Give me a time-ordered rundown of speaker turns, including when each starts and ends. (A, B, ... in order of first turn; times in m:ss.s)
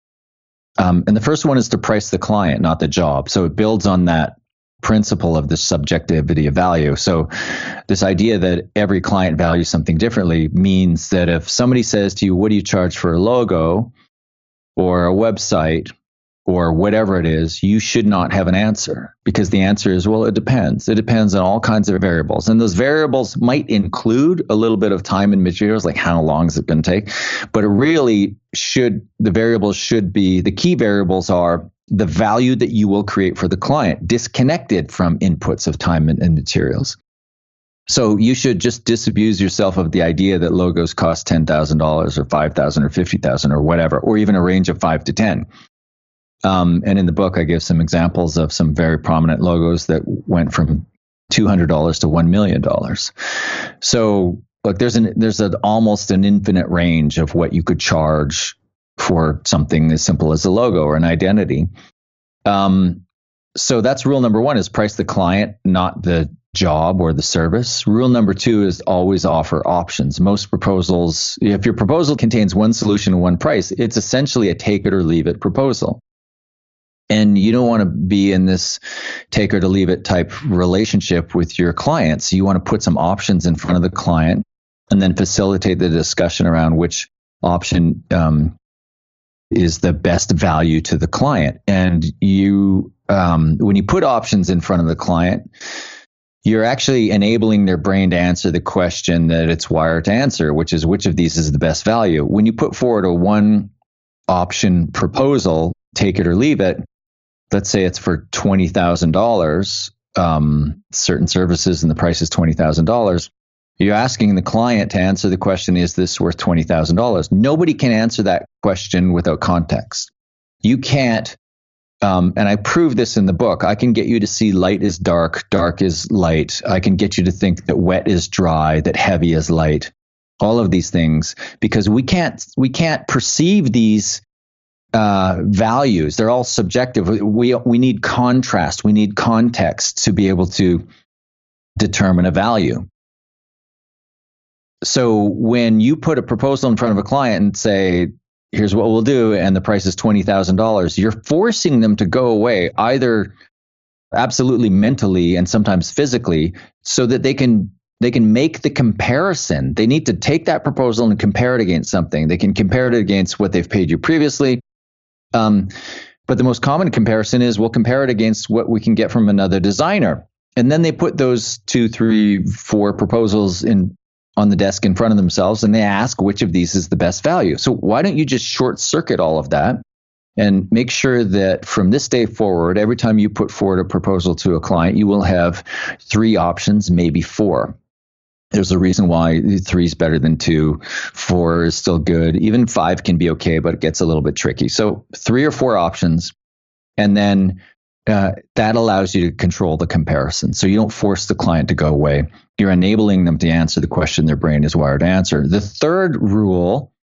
0:00.8-0:13.9 A
0:14.8-0:15.9 A
0:16.5-0:37.0 A
0:37.9-0:45.5 A
0:46.4-0:53.1 A
0:53.8-1:01.7 A
1:02.5-1:03.0 A
1:03.6-1:16.0 A
1:17.1-1:18.8 A
1:19.3-1:28.6 A
1:29.5-1:35.5 A
1:36.4-1:43.7 A
1:44.3-1:46.8 A
1:47.5-2:00.1 A
2:00.6-2:01.4 A
2:02.0-2:14.2 A
2:15.0-2:20.9 A
2:21.8-2:22.9 A
2:24.8-2:33.3 A
2:34.1-2:44.6 A
2:45.3-2:45.7 A
2:46.3-2:59.8 A
3:00.4-3:07.8 A
3:08.5-3:16.3 A
3:17.0-3:26.9 A